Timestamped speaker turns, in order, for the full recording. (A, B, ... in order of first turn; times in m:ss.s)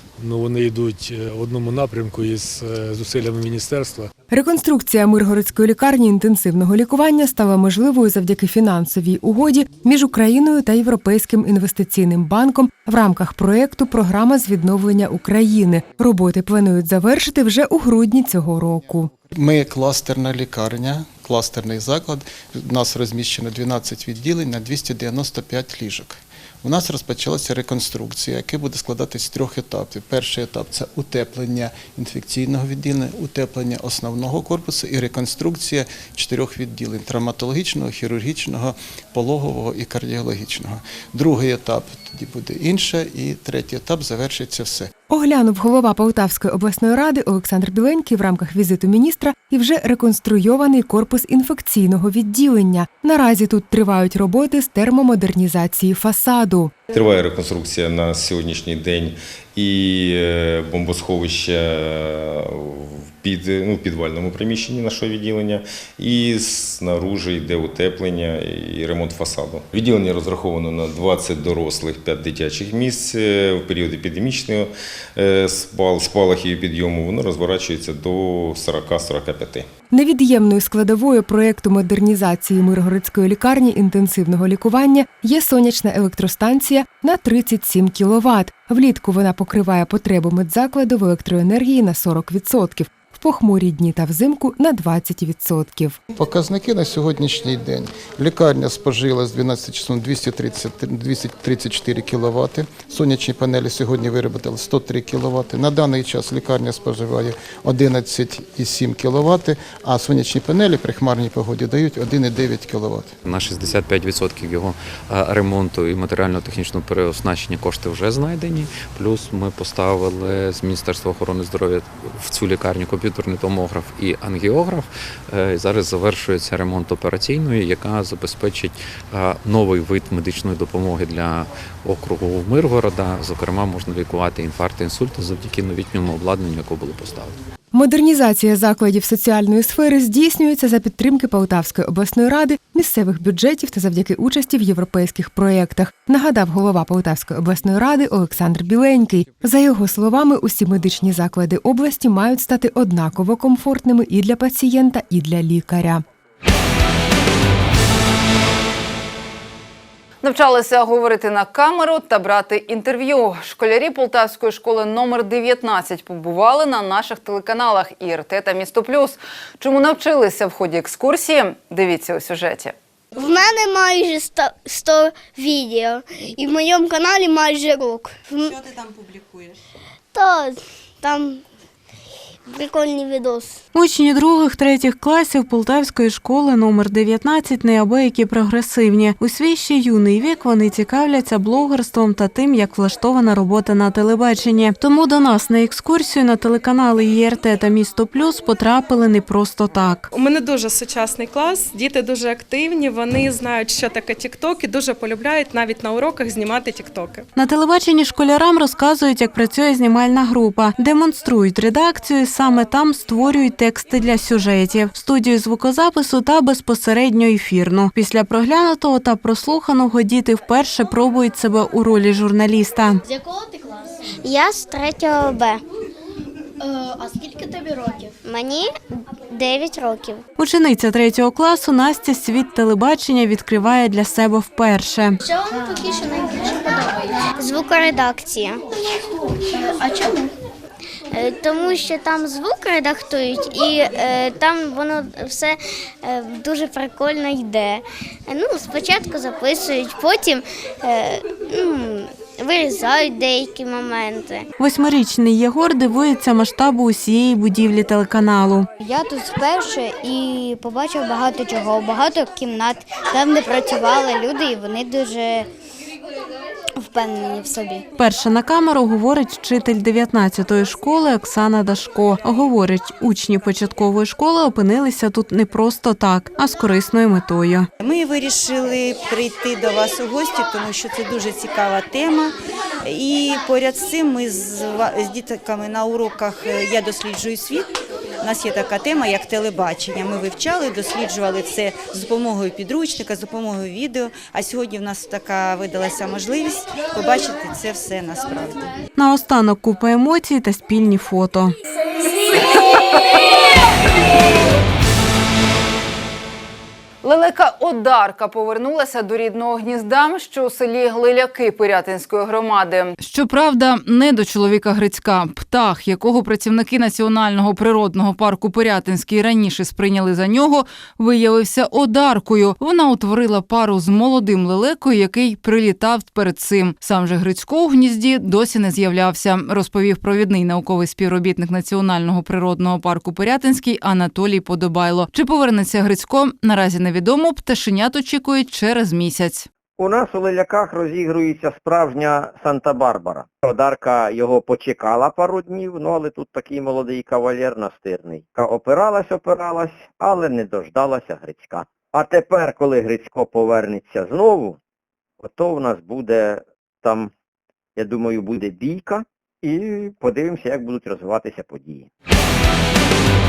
0:00.2-0:04.1 A
0:04.3-0:19.1 B
0:19.3-0:44.9 C
0:45.1-0:56.7 B
0:56.9-1:19.7 D
1:19.9-1:36.0 B
1:36.2-1:53.1 C
1:53.2-2:17.4 E
2:17.7-2:36.0 B
2:40.2-2:52.7 F
2:53.2-2:58.5 G
3:00.2-3:01.4 G
3:02.5-3:03.6 G
3:03.7-3:20.1 H
3:20.1-3:27.2 I
3:27.4-3:43.0 H
3:44.2-3:45.6 G
3:48.2-3:48.7 G
3:49.3-3:50.2 G
3:50.4-3:55.2 H
3:57.4-3:58.6 G
4:01.1-4:14.4 G
4:14.6-4:18.7 H
4:20.3-4:22.4 G
4:23.0-4:23.9 G
4:24.4-4:25.2 G
4:28.0-4:37.7 H
4:37.8-4:42.3 J
4:42.9-4:47.7 J
4:48.2-4:58.6 J
4:59.0-5:01.6 H
5:07.0-5:39.5 F
5:39.8-5:54.6 K
5:55.2-5:57.1 K
5:57.8-6:01.9 K